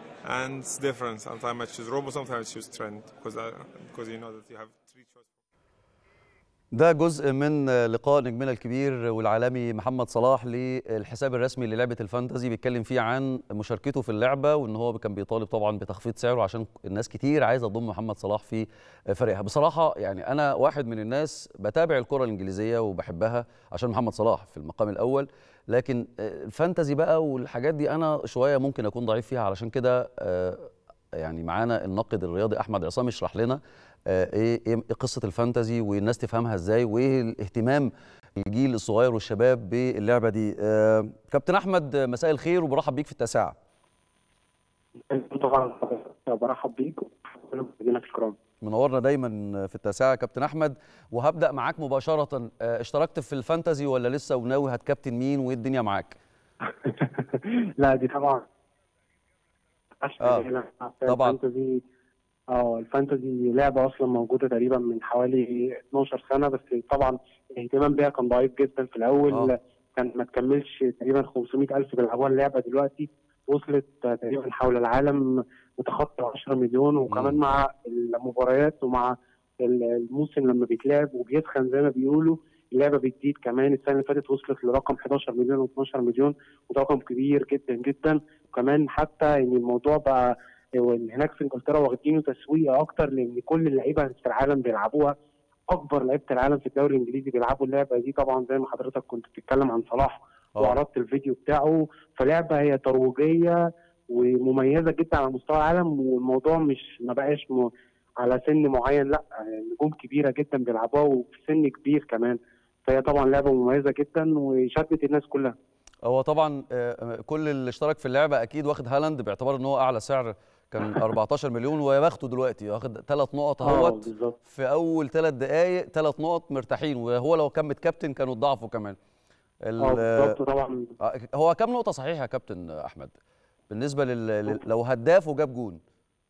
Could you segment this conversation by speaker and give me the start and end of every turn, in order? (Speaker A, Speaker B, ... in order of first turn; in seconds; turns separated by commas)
Speaker A: 0.2-5.2, Speaker B: 6.7-43.6, Speaker C: 45.1-48.4, Speaker B: 48.6-56.2, Speaker C: 56.8-58.4, Speaker C: 60.0-61.8, Speaker B: 60.2-60.5, Speaker B: 61.1-61.4, Speaker C: 62.5-95.1, Speaker B: 77.1-77.4, Speaker C: 95.7-103.6, Speaker C: 104.1-107.7, Speaker C: 108.2-115.5, Speaker B: 116.0-129.0, Speaker C: 123.6-124.4, Speaker B: 129.7-130.4, Speaker C: 129.8-130.9, Speaker B: 131.0-133.1, Speaker B: 133.7-135.8